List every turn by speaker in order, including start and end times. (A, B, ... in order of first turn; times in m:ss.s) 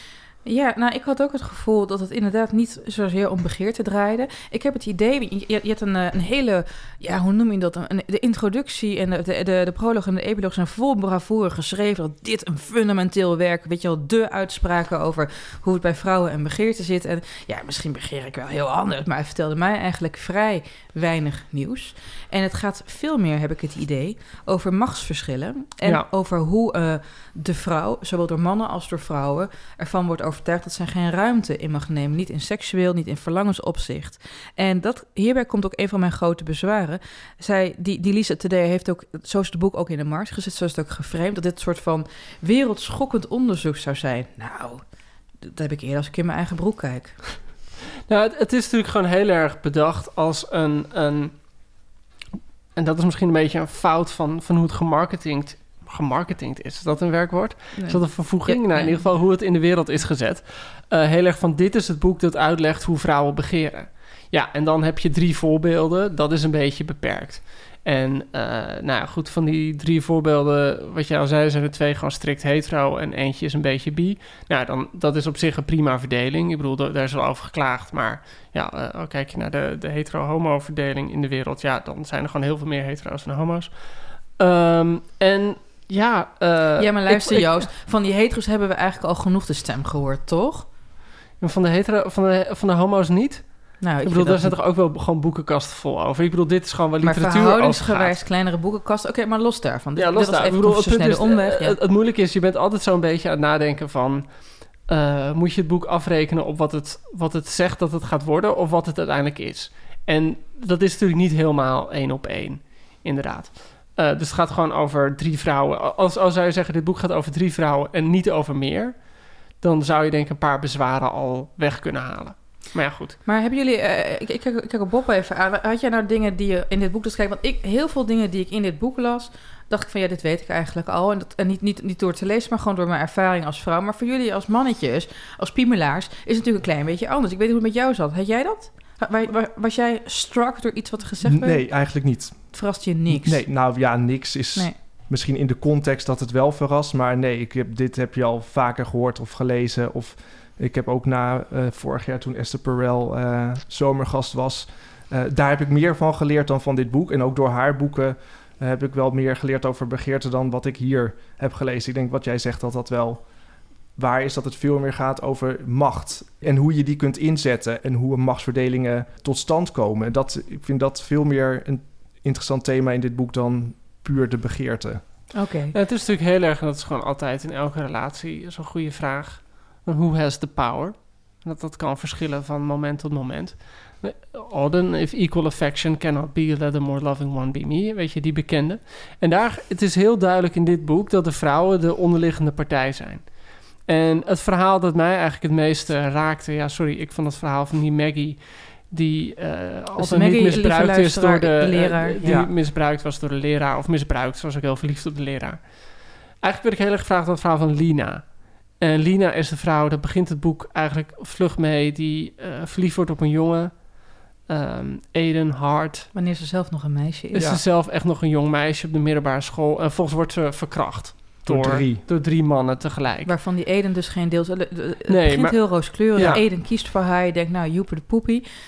0:00.4-0:44.8 A
0:45.4-0:47.4 A
0:48.1-0:51.7 B
0:52.7-1:27.7 B
0:57.8-0:59.0 A
1:26.8-1:30.7 A
1:31.4-1:38.2 B
1:33.8-1:34.6 A
1:37.0-1:41.8 A
1:40.0-2:03.2 B
2:03.2-2:23.4 A
2:21.2-2:55.0 C
2:55.3-2:55.7 A
2:55.7-3:36.1 B
3:20.0-3:22.2 A
3:22.2-3:22.5 C
3:36.1-3:37.4 A
3:37.3-3:43.3 B
3:37.4-3:37.6 C
3:41.4-3:42.0 C
3:43.2-3:48.4 A
3:45.1-3:46.4 B
3:46.2-3:46.4 C